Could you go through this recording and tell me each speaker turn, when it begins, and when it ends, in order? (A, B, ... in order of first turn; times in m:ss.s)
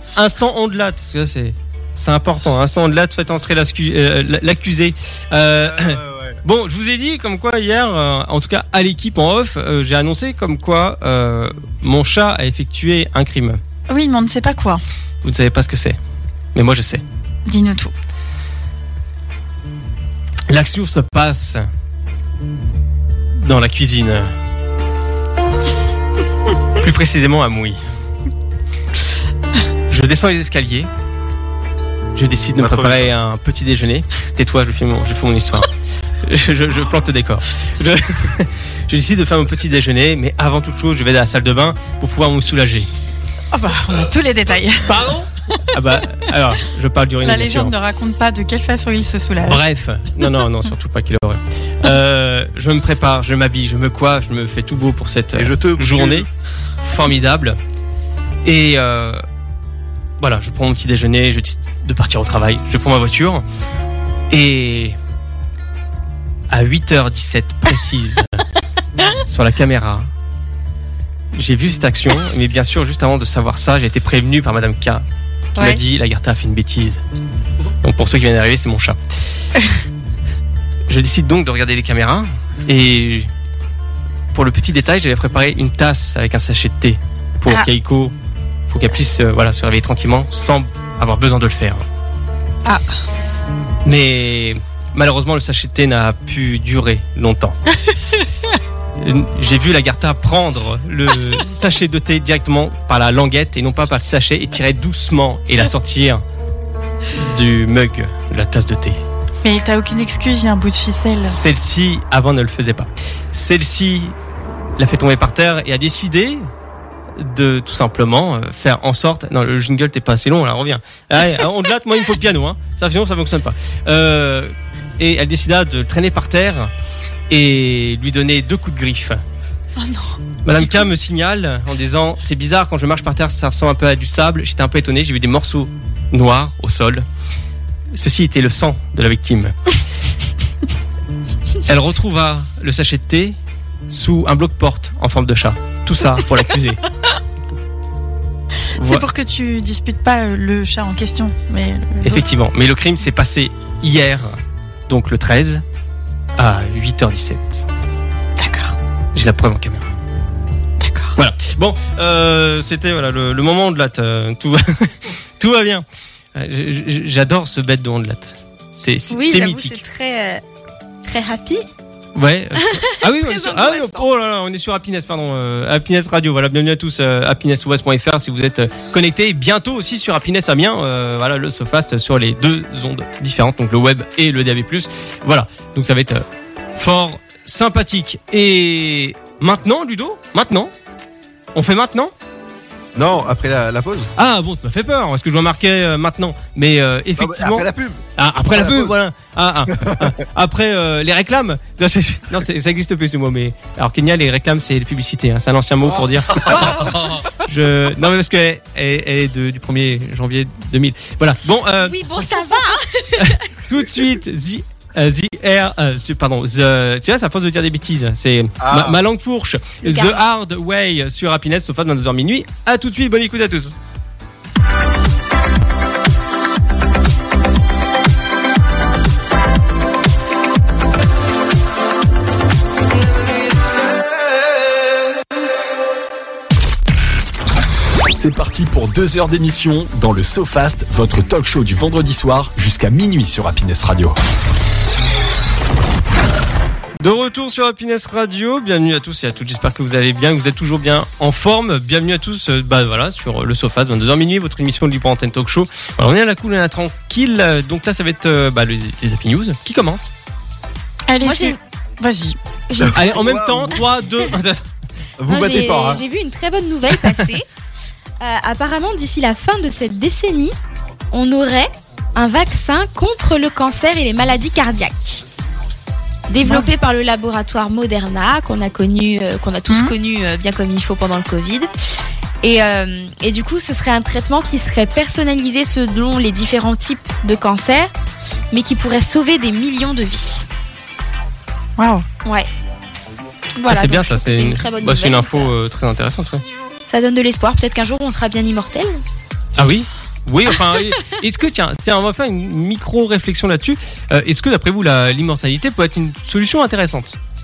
0:00.2-0:13.6 A
0:05.6-0:06.4 B
0:13.9-0:14.8 C
0:15.2-0:16.0 A
0:16.5-0:17.0 A
0:17.5-0:17.9 C
0:20.5-0:21.6 A
0:23.4-0:24.3 A
0:26.8-0:27.8 A
0:29.9-0:30.9 A
0:32.1-0:35.7 A
0:32.6-0:33.1 B
0:36.2-0:42.9 A
0:43.5-0:45.2 C
0:45.7-0:47.7 A
0:47.2-0:49.6 C
0:49.4-0:56.3 A
0:55.4-0:56.3 B
0:56.8-0:57.6 A
0:58.4-0:59.2 A
1:00.2-1:03.4 A
1:04.3-1:05.0 A
1:06.5-1:08.4 A
1:09.2-1:10.1 A
1:11.3-1:17.0 A
1:17.8-1:19.0 A
1:20.9-1:23.3 A
1:24.3-1:28.1 A
1:28.7-1:31.8 A
1:33.8-1:37.6 A
1:39.0-1:46.2 A
1:47.1-1:49.0 A
1:49.4-1:51.4 C
1:51.2-1:54.1 A
1:54.8-1:56.5 A
1:57.2-2:06.7 A
2:07.3-2:09.2 A
2:09.8-2:10.9 C
2:10.4-2:17.0 A
2:17.9-2:19.5 A
2:21.6-2:23.4 A
2:23.9-2:26.8 A
2:28.8-2:29.0 A
2:28.8-2:32.2 C
2:32.0-2:35.6 A
2:36.4-2:37.6 A
2:38.4-2:38.8 C
2:39.1-2:39.9 A
2:40.8-2:41.1 C
2:41.2-2:49.8 A
2:49.1-2:50.4 D
2:51.0-2:51.6 D
2:52.1-3:06.2 A
2:52.6-2:54.0 D
3:06.8-3:10.7 A
3:11.5-3:12.1 A
3:13.0-3:14.1 B
3:14.2-3:32.0 A
3:17.2-3:18.9 B
3:19.8-3:20.1 B
3:31.8-3:33.4 D
3:33.2-3:43.7 A
3:38.6-3:39.0 B
3:39.8-3:40.2 D
3:58.1-4:04.2 E
4:07.0-4:20.1 A
4:21.1-4:22.4 C
4:21.2-4:21.6 D
4:22.7-4:23.3 D
4:22.9-4:24.6 A
4:23.1-4:23.8 B
4:25.2-4:26.0 B
4:25.3-4:27.4 D
4:28.2-4:30.5 D
4:31.1-4:35.2 D
4:36.3-4:41.7 D
4:39.7-4:39.9 C
4:42.4-4:47.9 D
4:48.5-4:50.4 D
4:51.8-4:52.0 C
4:53.6-4:55.5 D
4:53.7-4:56.4 A
4:56.9-4:59.0 D
4:59.6-5:07.2 A